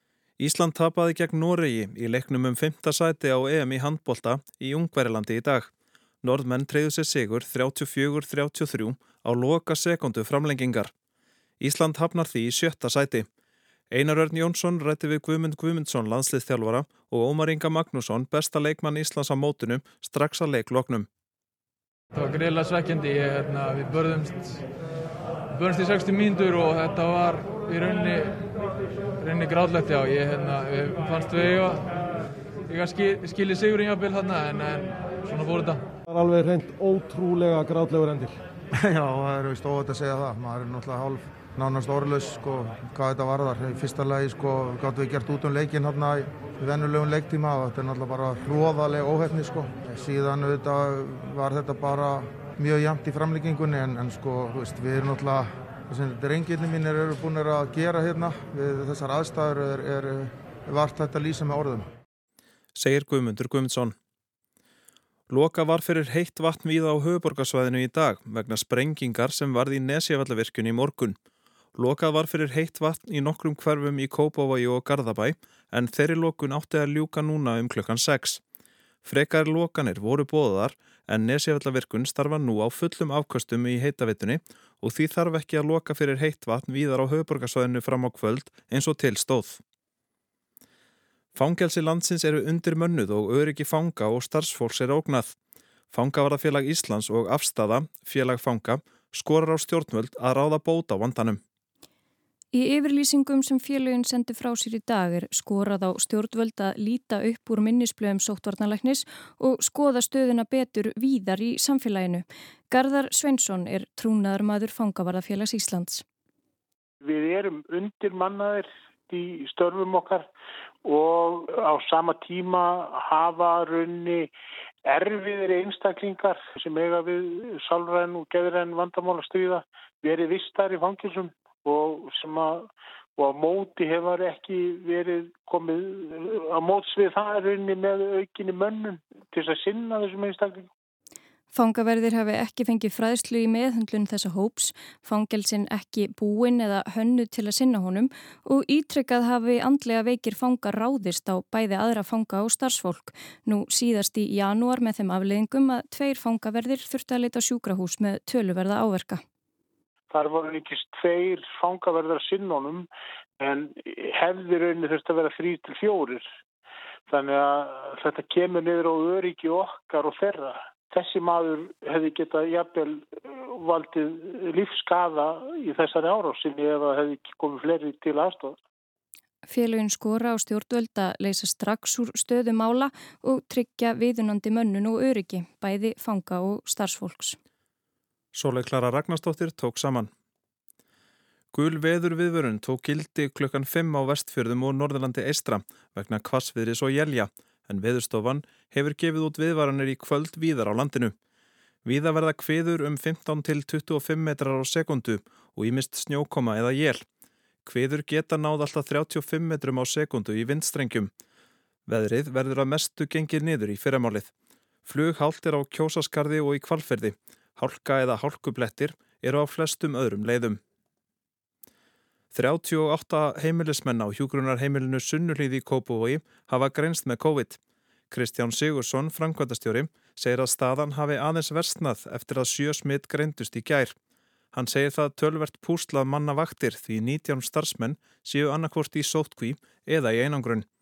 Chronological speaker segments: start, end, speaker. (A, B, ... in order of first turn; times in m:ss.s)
0:00.4-0:05.7 A
0:06.2-0:10.9 A
0:11.6-0:13.3 A
0:13.9-0:21.1 A
0:22.1-0:24.6 B
0:25.5-0:28.6 B
0:29.2-0:32.0 B
0:32.7-0:35.8 B
0:36.1-0:38.4 C
0:38.8-1:01.9 D
1:02.8-1:04.0 A
1:05.3-1:11.2 A
1:11.8-1:18.4 A
1:19.0-1:29.6 A
1:31.4-1:35.4 A
1:35.9-1:41.4 A
1:42.5-1:56.0 E
1:57.0-2:00.3 F
2:00.8-2:04.3 F
2:04.9-2:20.7 F
2:21.5-2:39.2 E
2:40.1-2:42.9 F
2:43.4-2:46.3 F
2:47.1-2:58.6 F
2:59.5-3:07.4 E
3:08.4-3:10.1 A
3:11.5-3:21.2 A
3:21.8-3:27.0 A
3:27.6-3:31.1 A
3:31.9-3:34.3 A
3:34.9-3:40.6 A
3:42.3-3:47.6 A
3:48.1-3:54.0 A
3:54.5-4:00.7 A